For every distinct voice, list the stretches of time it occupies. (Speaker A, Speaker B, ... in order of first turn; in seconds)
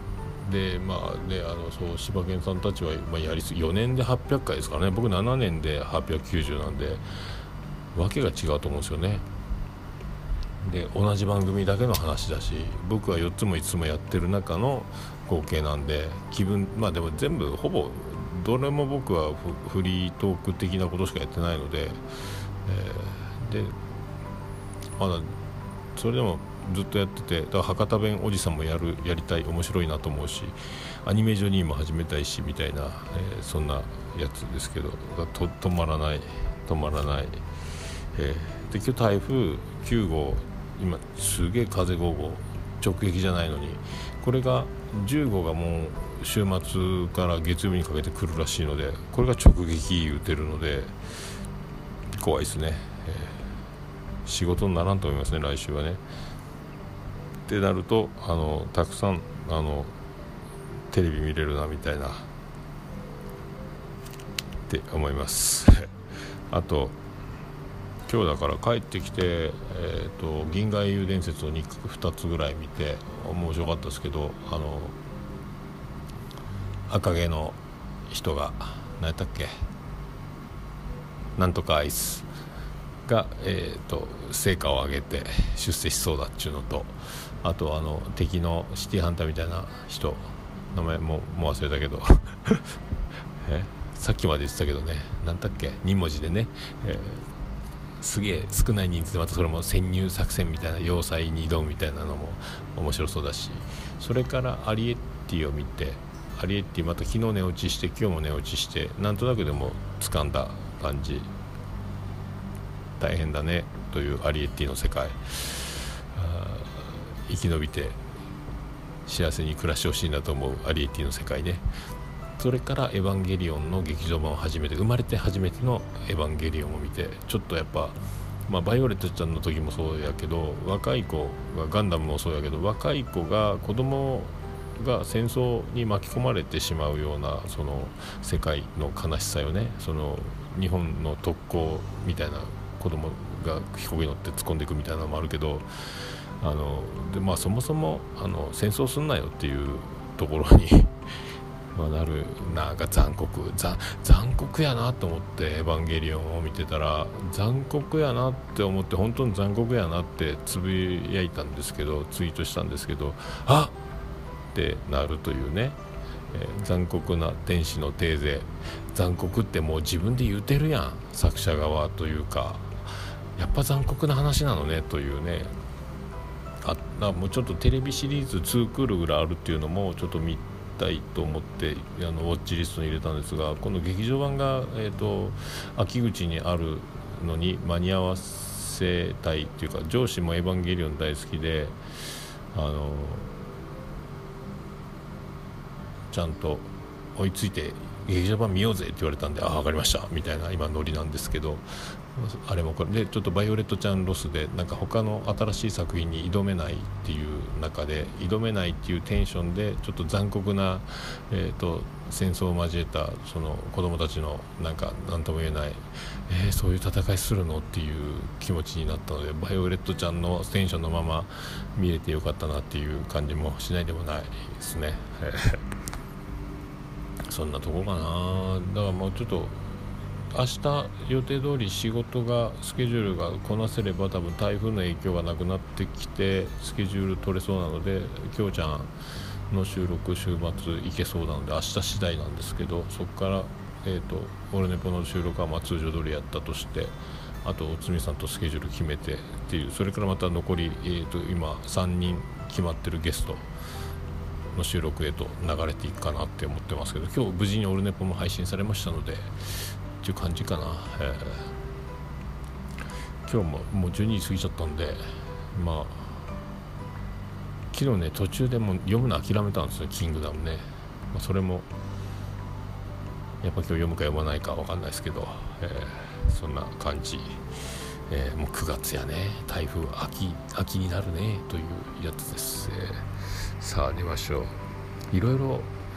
Speaker A: 0.4-7.0, 7.9-9.2, 10.6-22.0, 22.6-23.8, 25.0-25.4, 26.0-37.4, 38.1-50.9, 52.2-53.4, 54.2-56.0, 57.5-60.0, 60.9-62.3, 64.7-65.9, 66.5-67.0, 68.1-75.0, 76.9-77.6, 78.1-79.5, 81.4-82.3, 83.1-92.7, 93.4-97.3, 98.0-111.3, 113.0-118.0, 119.0-121.7, 122.4-145.7, 146.4-150.9, 151.7-163.7, 164.5-165.8, 166.3-175.5, 176.6-191.8, 192.5-193.4, 196.1-225.6, 227.3-229.7, 230.3-238.9, 239.5-253.5, 254.5-261.5, 263.2-265.0, 265.5-266.2, 267.7-271.7, 273.4-277.4, 278.1-283.1, 283.6-284.6, 285.1-285.7